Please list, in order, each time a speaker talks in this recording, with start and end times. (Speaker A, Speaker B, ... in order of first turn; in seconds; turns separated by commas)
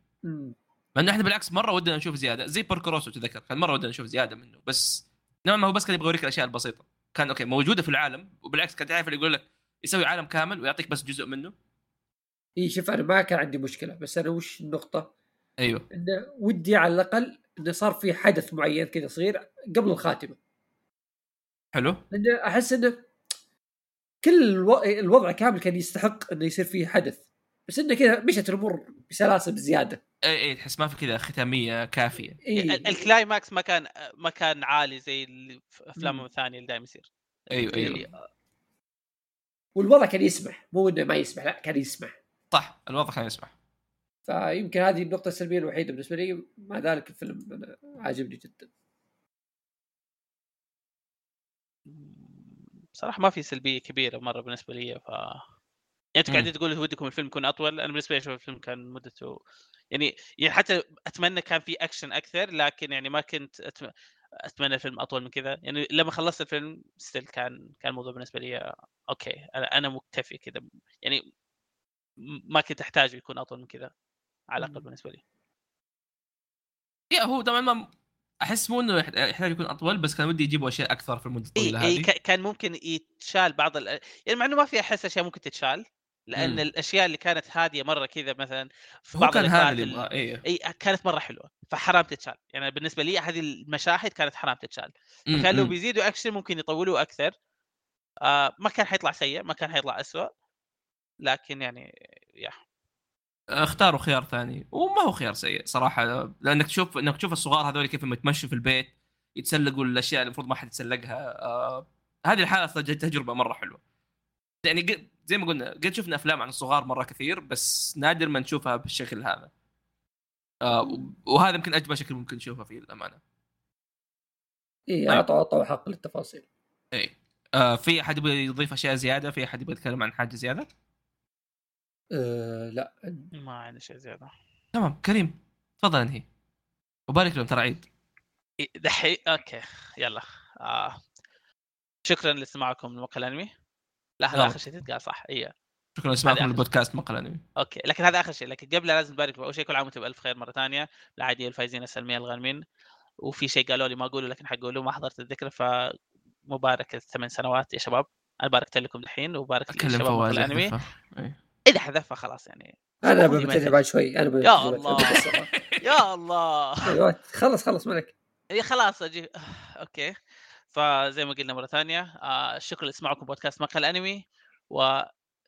Speaker A: 0.2-0.6, Speaker B: 0.9-11.5, Speaker A: 12.6-15.1, Speaker B: 15.6-15.8, Speaker A: 15.9-20.4, Speaker B: 21.7-22.0, Speaker A: 22.1-23.0, Speaker A: 24.2-30.0, Speaker B: 30.2-32.4, Speaker A: 32.4-33.0, Speaker C: 32.5-38.2, Speaker A: 36.0-36.2, Speaker B: 37.5-38.0, Speaker A: 39.8-42.1, Speaker B: 42.5-43.5, Speaker A: 44.3-48.7, Speaker C: 51.9-52.4, Speaker C: 53.0-55.4, Speaker C: 56.2-59.4, Speaker C: 59.9-63.9, Speaker C: 64.5-71.2, Speaker C: 72.5-73.9, Speaker C: 74.5-75.2, Speaker A: 74.6-74.8, Speaker B: 77.1-77.8, Speaker B: 78.4-82.1, Speaker C: 81.6-97.3, Speaker B: 86.4-86.6, Speaker B: 89.2-90.4, Speaker B: 95.3-95.7, Speaker C: 98.2-100.3, Speaker C: 101.2-101.8, Speaker B: 103.5-113.8, Speaker B: 114.6-119.5, Speaker B: 120.6-123.2, Speaker A: 124.9-126.4, Speaker B: 126.9-130.7, Speaker A: 132.1-133.3, Speaker C: 133.3-134.3, Speaker B: 134.7-136.2, Speaker B: 137.1-137.8, Speaker C: 138.6-141.0, Speaker C: 142.1-143.5, Speaker C: 144.2-145.5, Speaker B: 146.0-147.4, Speaker C: 146.2-146.6, Speaker C: 147.6-152.6, Speaker C: 153.2-155.9, Speaker C: 156.5-160.7, Speaker B: 159.7-161.3, Speaker C: 161.7-163.8, Speaker A: 163.0-165.5, Speaker C: 164.4-165.2, Speaker B: 165.1-165.8, Speaker C: 165.8-166.9, Speaker A: 166.8-168.1, Speaker C: 168.5-170.1, Speaker C: 170.7-174.2, Speaker C: 174.7-175.1